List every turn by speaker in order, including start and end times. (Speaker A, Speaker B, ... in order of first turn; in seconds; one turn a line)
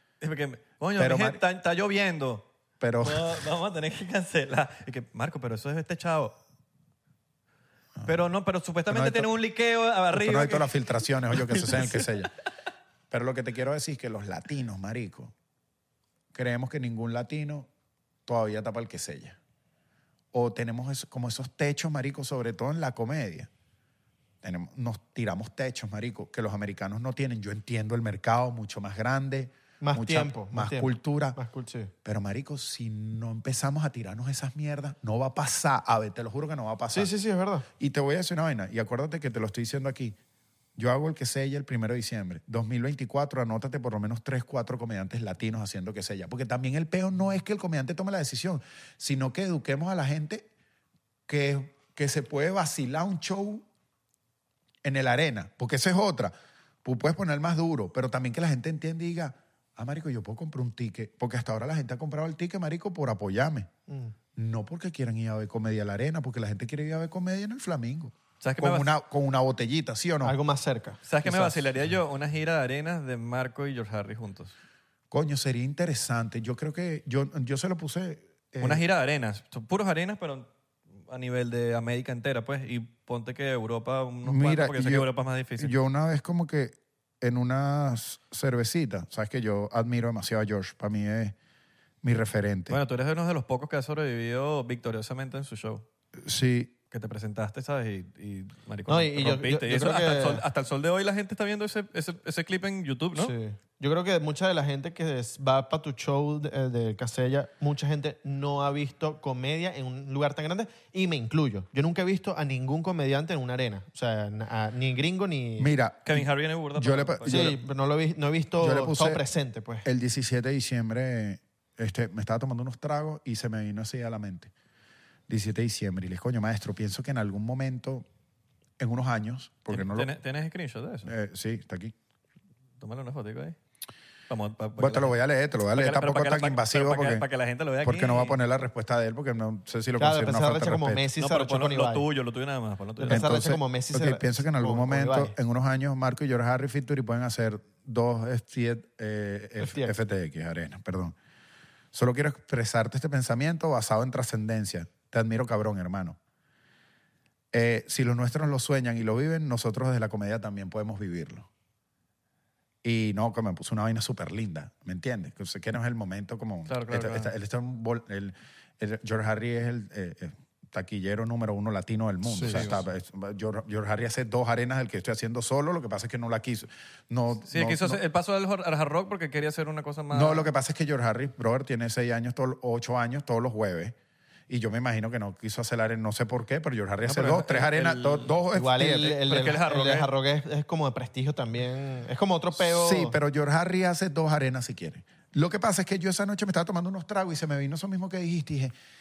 Speaker A: 0.2-2.5
Speaker B: 0.9-1.4
Speaker B: 2.8-3.5
Speaker A: 3.0-6.4
Speaker B: 8.0-8.2
Speaker A: 8.1-12.1
Speaker B: 8.9-9.3
Speaker B: 10.1-12.3
Speaker B: 13.1-15.3
Speaker B: 16.3-17.7
Speaker B: 18.2-19.4
Speaker B: 20.3-23.5
Speaker B: 24.4-31.4
Speaker C: 29.8-31.9
Speaker B: 32.0-37.1
Speaker C: 36.9-37.7
Speaker B: 37.8-40.2
Speaker B: 40.8-50.5
Speaker B: 51.3-53.6
Speaker B: 54.8-63.7
Speaker C: 63.9-64.1
Speaker B: 64.3-70.3
Speaker A: 68.4-68.9
Speaker C: 70.2-71.7
Speaker A: 71.0-74.5
Speaker B: 75.1-78.8
Speaker A: 78.6-80.5
Speaker A: 81.1-85.7
Speaker B: 84.2-91.3
Speaker B: 92.0-92.8
Speaker A: 92.7-95.8
Speaker B: 96.2-96.7
Speaker A: 96.9-103.3
Speaker C: 98.9-100.4
Speaker C: 103.2-115.7
Speaker B: 115.6-117.5
Speaker A: 116.0-117.6
Speaker C: 117.3-119.8
Speaker B: 118.6-119.2
Speaker B: 119.8-124.5
Speaker B: 125.3-128.0
Speaker B: 128.8-130.1
Speaker A: 129.7-131.1
Speaker B: 131.0-131.9
Speaker A: 132.8-133.6
Speaker A: 134.3-135.1
Speaker B: 134.8-137.3
Speaker A: 135.7-138.4
Speaker B: 137.8-141.0
Speaker C: 140.0-142.1
Speaker A: 141.2-143.3
Speaker C: 143.0-145.3
Speaker B: 143.1-151.2
Speaker C: 149.6-149.9
Speaker B: 151.9-156.2
Speaker B: 157.5-161.5
Speaker B: 162.8-178.0
Speaker A: 166.7-167.3
Speaker C: 172.3-172.7
Speaker A: 172.4-172.8
Speaker A: 177.5-180.5
Speaker B: 180.1-183.9
Speaker B: 184.5-189.2
Speaker A: 187.0-188.3
Speaker C: 188.5-193.2
Speaker A: 189.0-190.1
Speaker B: 192.5-198.7